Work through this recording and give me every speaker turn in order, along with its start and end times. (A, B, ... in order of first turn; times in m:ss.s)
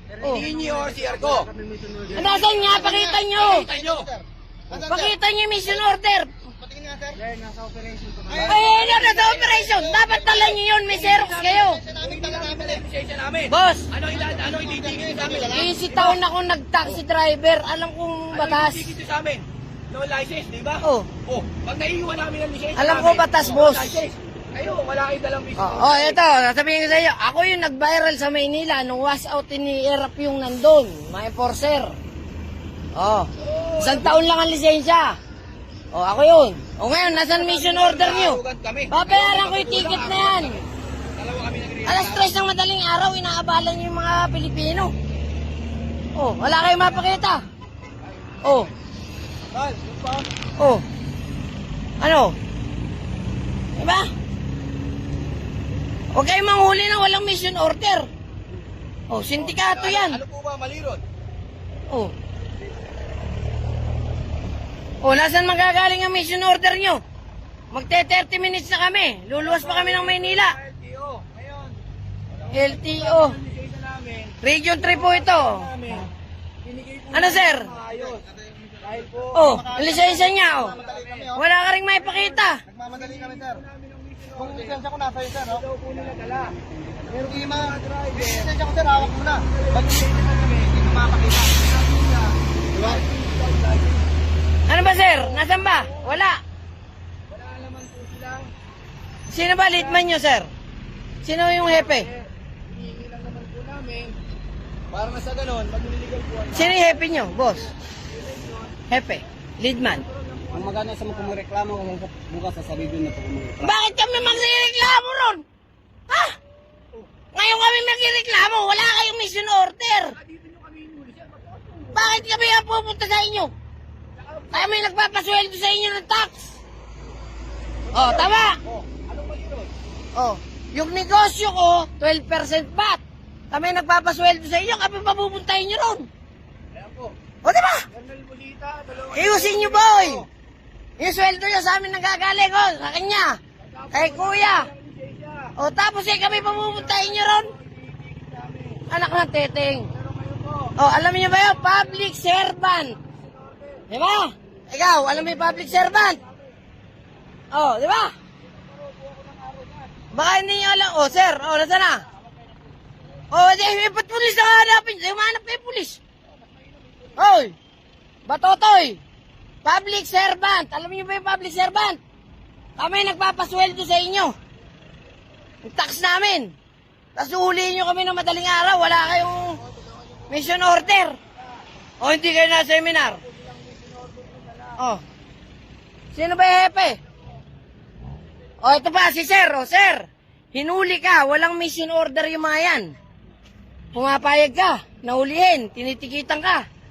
0:00.1-0:05.2 A
0:00.2-0:01.5 B
0:02.0-0:04.1 B
0:02.1-0:03.7 C
0:04.7-0:06.3 C
0:06.6-0:07.2 A
0:08.0-0:09.4 B
0:08.3-0:10.6 A
0:08.4-0:11.8 C
0:10.8-0:16.2 B
0:11.3-0:12.8 A
0:13.5-0:13.9 C
0:14.1-0:15.8 A
0:15.5-0:18.9 C
0:18.3-0:26.2 B
0:20.8-0:21.1 C
0:22.8-0:24.0 C
0:25.6-0:32.0 C
0:33.0-0:35.2 C
0:33.4-0:34.2 B
0:35.9-0:40.6 C
0:37.0-0:42.3 B
0:41.8-0:45.0 C
0:46.2-0:47.4 C
0:48.0-0:48.7 B
0:48.4-0:48.7 C
0:49.5-0:50.3 B
0:50.6-0:50.8 C
0:52.0-0:52.4 C
0:53.8-0:54.1 C
0:56.1-0:58.1 C
0:59.1-1:00.2 C
0:59.4-1:01.0 B
1:01.9-1:02.1 C
1:05.0-1:07.0 C
1:07.7-1:10.6 C
1:09.4-1:11.7 B
1:12.3-1:16.1 B
1:12.5-1:13.4 C
1:14.4-1:15.7 C
1:16.6-1:18.2 B
1:17.1-1:17.7 C
1:17.8-1:21.4 A
1:18.8-1:20.0 B
1:19.3-1:20.8 C
1:20.5-1:21.3 B
1:21.4-1:22.6 C
1:22.0-1:34.1 B
1:22.6-1:23.6 A
1:24.4-1:25.6 A
1:27.1-1:30.1 A
1:30.8-1:31.5 A
1:32.7-1:33.0 A
1:34.7-1:36.4 C
1:35.2-1:36.2 B
1:37.3-1:38.5 B
1:39.3-1:40.5 C
1:39.7-1:40.1 B
1:41.2-1:42.1 C
1:41.6-1:44.2 B
1:44.9-1:48.8 B
1:46.5-1:47.7 C
1:48.9-1:50.0 C
1:49.8-1:51.4 B
1:50.5-1:53.7 A
1:53.6-1:55.4 C
1:56.1-1:56.4 C
1:57.3-2:00.2 C
2:00.1-2:02.3 B
2:01.9-2:03.5 C
2:04.2-2:04.9 B
2:04.5-2:06.6 C
2:07.8-2:09.7 B
2:07.9-2:08.6 C
2:10.2-2:16.1 C
2:16.7-2:17.2 B
2:17.4-2:17.9 C
2:17.9-2:20.3 B
2:19.1-2:20.3 C
2:21.0-2:24.7 C
2:23.6-2:25.6 B
2:25.6-2:27.5 C
2:26.2-2:28.8 B
2:28.9-2:29.9 C
2:29.9-2:30.8 B
2:30.8-2:33.0 C
2:31.3-2:32.2 B
2:32.8-2:33.9 B
2:33.9-2:36.2 C
2:35.0-2:36.6 B
2:37.5-2:38.2 C
2:38.4-2:40.0 B
2:40.1-2:42.1 C
2:43.3-2:46.0 C
2:46.3-2:47.3 B
2:47.2-2:47.6 C
2:48.3-2:49.0 C
2:49.6-2:52.0 C
2:52.8-2:54.4 C
2:55.6-2:56.6 C
2:57.2-2:59.6 C
2:59.7-3:00.4 B
3:00.3-3:01.2 C
3:02.0-3:03.2 C
3:03.2-3:04.8 B
3:04.8-3:05.0 C
3:06.1-3:07.0 C
3:08.6-3:13.0 C
3:13.9-3:16.7 C